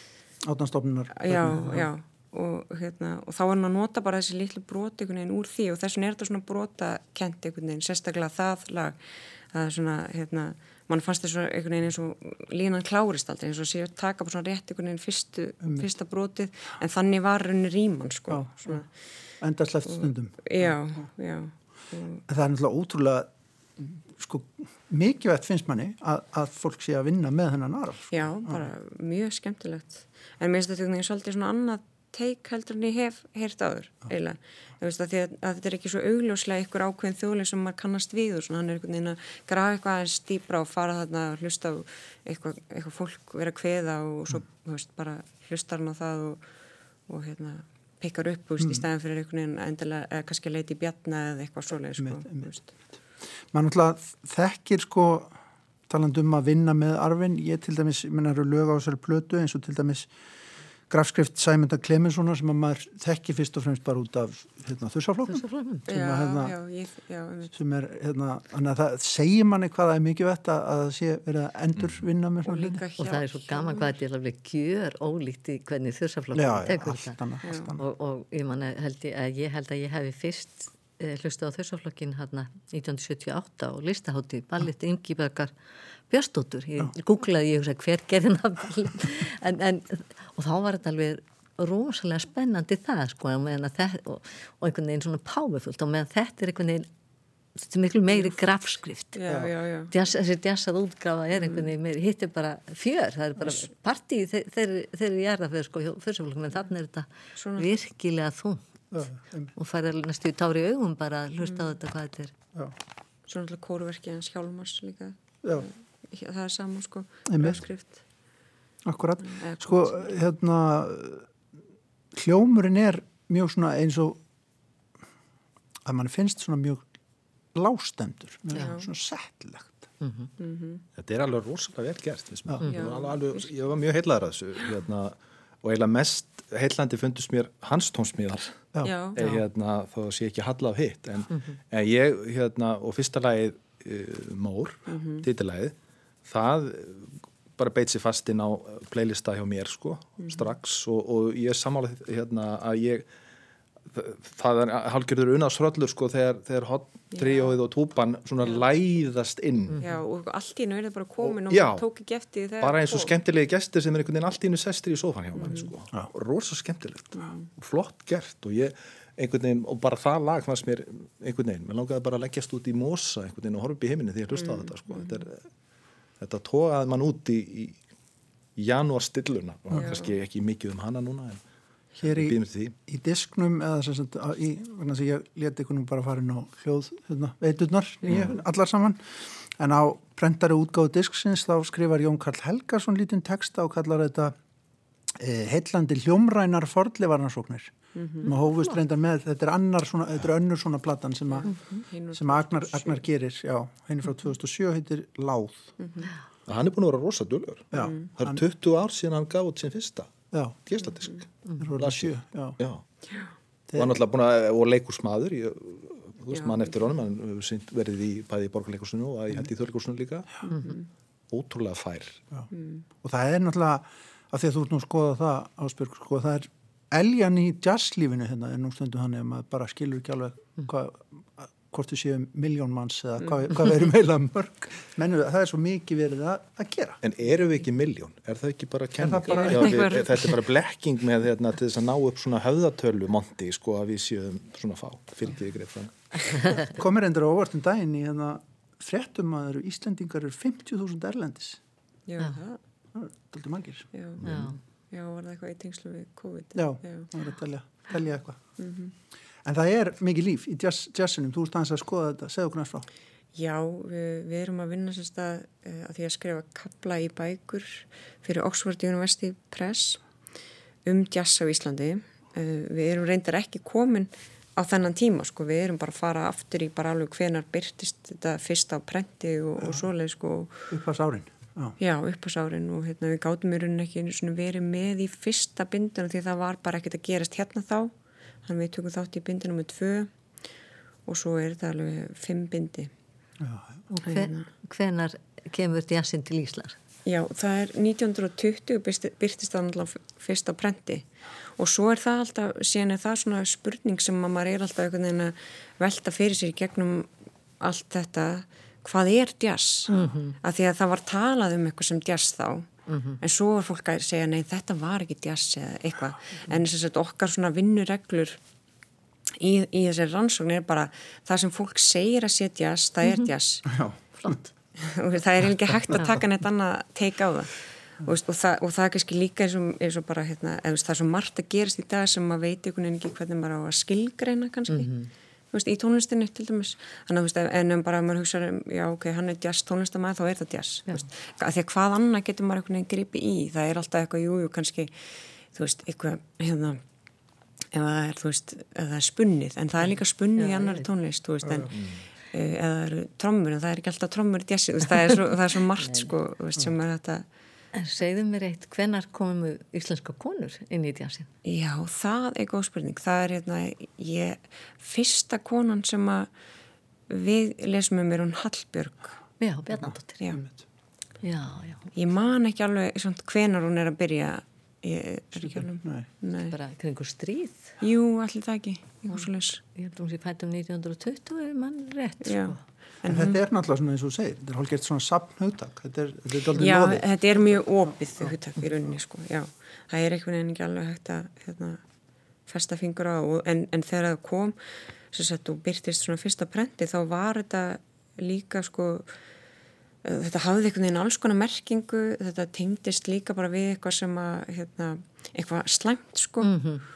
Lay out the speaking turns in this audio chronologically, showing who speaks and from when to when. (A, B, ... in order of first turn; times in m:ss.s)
0:00.4-0:01.9 A
0:01.2-0:09.0 B
0:09.5-0:18.9 B
0:15.6-0:15.9 A
0:18.3-0:18.8 A
0:19.4-0:21.1 A
0:19.9-0:22.2 B
0:22.3-0:23.3 A
0:24.1-0:28.7 A
0:28.1-0:46.4 B
0:47.1-0:52.7 B
0:48.6-0:48.8 A
0:52.0-0:52.5 A
0:53.5-0:55.4 A
0:55.9-1:00.1 A
1:00.9-1:06.6 A
1:05.3-1:05.8 C
1:05.9-1:07.5 B
1:07.5-1:12.8 A
1:11.8-1:12.0 D
1:12.4-1:13.9 B
1:13.0-1:17.2 C
1:16.3-1:17.8 A
1:17.4-1:17.7 B
1:17.8-1:25.5 C
1:26.1-1:36.9 C
1:37.6-1:39.2 C
1:39.1-1:39.9 B
1:39.3-1:39.5 A
1:39.9-1:48.6 C
1:41.3-1:41.7 B
1:47.4-1:47.7 B
1:48.9-1:49.5 A
1:49.6-1:52.3 C
1:53.3-1:58.0 B
1:57.3-1:57.6 A
1:58.8-2:01.3 A
1:59.2-2:00.2 B
2:02.1-2:04.2 A
2:05.9-2:06.9 A
2:07.5-2:09.9 A
2:08.5-2:08.9 B
2:10.0-2:10.3 C
2:10.4-2:10.8 B
2:11.0-2:25.8 D
2:12.6-2:13.7 B
2:18.8-2:19.2 B
2:24.9-2:25.3 B
2:26.3-2:33.1 D
2:30.2-2:30.5 B
2:33.9-2:39.8 D
2:37.1-2:37.6 B
2:38.4-2:38.7 B
2:39.7-2:40.0 C
2:39.8-2:43.2 B
2:41.2-2:41.8 D
2:42.6-2:55.4 D
2:45.4-2:45.7 B
2:47.2-2:47.5 B
2:54.3-2:55.3 B
2:56.2-2:57.8 D
2:58.6-3:01.4 D
2:59.7-3:00.2 B
3:02.0-3:14.4 A
3:02.0-3:02.7 D
3:08.1-3:08.3 D
3:15.2-3:21.5 A
3:18.0-3:18.3 B
3:18.3-3:18.8 C
3:21.3-3:23.0 B
3:22.1-3:25.7 A
3:25.8-3:26.1 B
3:26.5-3:32.8 D
3:27.7-3:28.4 A
3:27.7-3:28.1 B
3:30.3-3:30.6 A
3:30.8-3:31.2 B
3:31.6-3:32.6 A
3:33.7-3:34.0 A
3:33.8-3:40.5 D
3:36.3-3:36.7 B
3:40.5-3:40.9 B
3:41.3-3:42.2 D
3:42.5-3:42.9 B
3:43.0-3:57.0 A
3:57.0-4:06.6 D
3:59.0-3:59.9 A
3:59.3-4:00.4 B
4:06.6-4:11.6 A
4:12.1-4:12.6 B
4:12.9-4:13.9 A
4:13.9-4:14.2 B
4:14.2-4:14.5 D
4:14.2-4:14.6 C
4:14.9-4:17.1 B
4:16.6-4:18.4 A
4:18.6-4:18.9 B
4:19.4-4:22.9 A
4:23.4-4:30.0 B
4:30.8-4:40.7 B
4:40.7-4:41.8 A
4:41.8-4:47.9 B
4:48.4-4:50.1 B
4:51.1-4:52.9 B
4:53.4-4:53.9 A
4:53.9-4:56.8 C
4:54.0-4:54.5 B
4:57.1-5:01.1 B
5:01.6-5:12.7 B
5:09.9-5:10.4 C
5:12.9-5:13.2 C
5:13.2-5:18.4 B
5:19.4-5:23.8 B
5:23.7-5:24.4 A
5:24.8-5:34.9 B
5:34.7-5:35.1 C
5:35.5-5:46.8 B
5:47.7-5:51.7 B
5:50.4-5:50.9 C
5:51.4-5:51.7 A
5:51.7-5:52.0 D
5:52.3-5:57.3 B
5:55.8-5:56.1 C
5:57.7-6:01.3 C
6:01.4-6:06.3 B
6:07.1-6:09.2 B
6:09.4-6:10.2 C
6:09.7-6:10.6 A
6:11.2-6:11.9 C
6:11.9-6:16.6 B
6:15.4-6:16.1 A
6:16.4-6:17.7 C
6:17.8-6:19.6 B
6:19.1-6:22.6 C
6:22.2-6:23.4 B
6:23.1-6:28.3 A
6:26.6-6:31.8 B
6:32.5-6:39.2 B
6:40.0-6:46.6 B
6:46.4-6:46.8 C